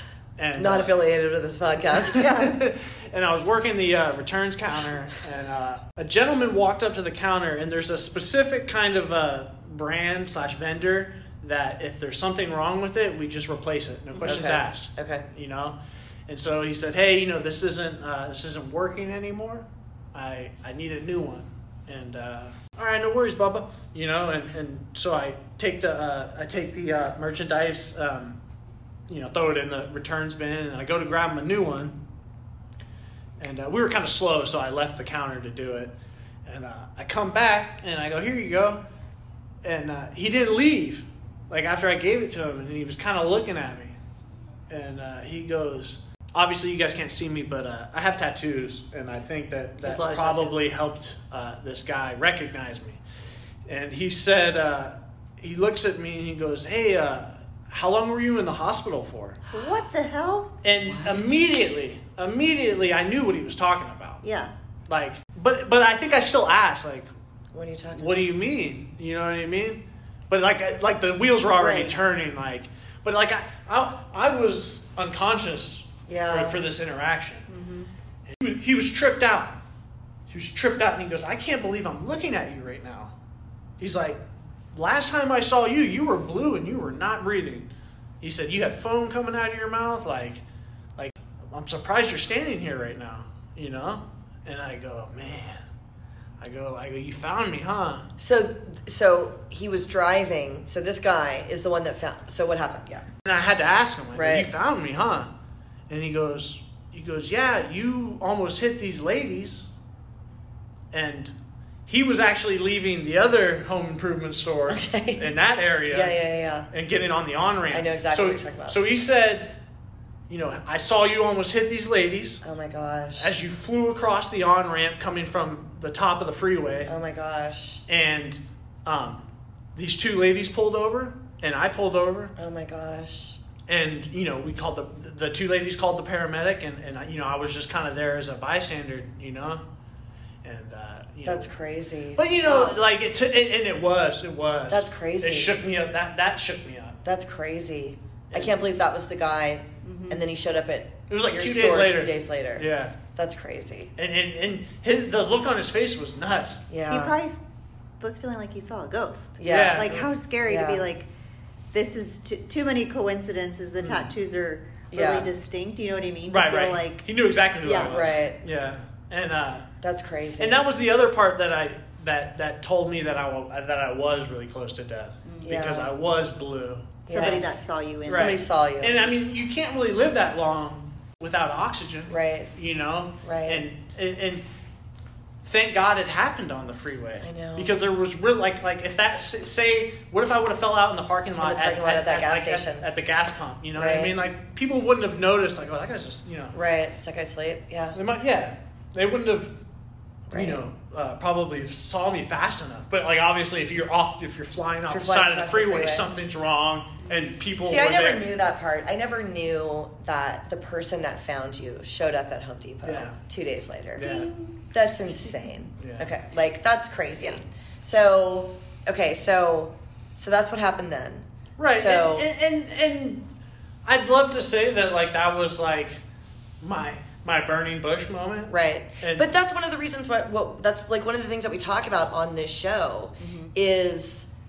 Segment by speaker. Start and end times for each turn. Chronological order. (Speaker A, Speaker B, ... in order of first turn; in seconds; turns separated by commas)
Speaker A: 0.4-0.9, Speaker B: 0.6-2.4, Speaker A: 1.9-15.8, Speaker C: 2.1-2.6, Speaker B: 14.2-15.3, Speaker A: 16.3-28.4, Speaker A: 29.1-32.0, Speaker A: 33.4-35.9, Speaker A: 36.5-38.8, Speaker A: 39.6-44.0, Speaker A: 44.7-53.0, Speaker B: 49.8-50.7, Speaker A: 53.7-59.4, Speaker C: 59.5-60.6, Speaker A: 60.6-64.2, Speaker B: 60.9-61.4, Speaker C: 64.2-64.5, Speaker A: 64.9-67.1, Speaker B: 67.5-68.1, Speaker A: 67.9-77.5, Speaker C: 71.5-72.0, Speaker B: 76.1-76.6, Speaker C: 77.5-77.9, Speaker A: 78.3-79.6, Speaker A: 80.3-83.1, Speaker A: 83.8-84.2, Speaker A: 84.7-87.7, Speaker A: 88.2-90.4, Speaker A: 91.0-95.6, Speaker A: 96.4-98.1, Speaker B: 98.2-103.1, Speaker A: 103.2-105.3, Speaker B: 104.1-104.5, Speaker A: 105.9-109.7, Speaker A: 110.9-111.3, Speaker A: 111.9-119.6, Speaker B: 114.7-115.3, Speaker B: 115.9-116.7, Speaker B: 117.7-118.8, Speaker A: 120.3-122.4, Speaker B: 122.4-123.4, Speaker A: 123.2-126.9, Speaker B: 126.8-127.8, Speaker A: 127.9-132.3, Speaker B: 132.4-133.4, Speaker A: 133.7-139.6, Speaker A: 140.4-141.5, Speaker B: 141.2-142.8, Speaker A: 142.2-147.0, Speaker B: 144.7-145.6, Speaker B: 147.1-153.9, Speaker A: 148.3-148.6, Speaker C: 149.8-150.2, Speaker A: 151.1-152.9, Speaker A: 154.0-156.7, Speaker B: 156.7-157.1, Speaker C: 156.9-157.4, Speaker C: 158.0-161.1, Speaker B: 159.4-160.8, Speaker A: 159.5-160.1, Speaker C: 161.7-167.0, Speaker A: 163.8-164.1, Speaker B: 164.9-165.3, Speaker A: 166.3-169.7, Speaker C: 167.6-168.0, Speaker B: 167.9-168.4, Speaker B: 169.8-170.6, Speaker A: 170.4-177.4, Speaker C: 175.2-175.6, Speaker B: 175.4-175.9, Speaker B: 177.1-177.4, Speaker C: 177.1-178.4, Speaker A: 178.1-184.4, Speaker B: 178.1-179.1, Speaker B: 182.1-182.5, Speaker B: 183.2-183.6, Speaker A: 185.4-196.5, Speaker B: 187.2-187.7, Speaker B: 191.4-192.9, Speaker B: 193.8-194.2, Speaker B: 196.5-198.0, Speaker A: 197.9-199.6, Speaker B: 200.3-200.6, Speaker A: 200.3-208.3, Speaker B: 204.9-206.1, Speaker B: 207.6-214.1, Speaker A: 212.8-213.2, Speaker C: 214.0-214.5, Speaker A: 214.0-214.3, Speaker B: 214.7-222.3, Speaker A: 215.8-216.1, Speaker A: 221.6-223.3, Speaker A: 223.8-226.0, Speaker A: 226.6-229.3, Speaker B: 228.5-234.3, Speaker C: 233.2-233.5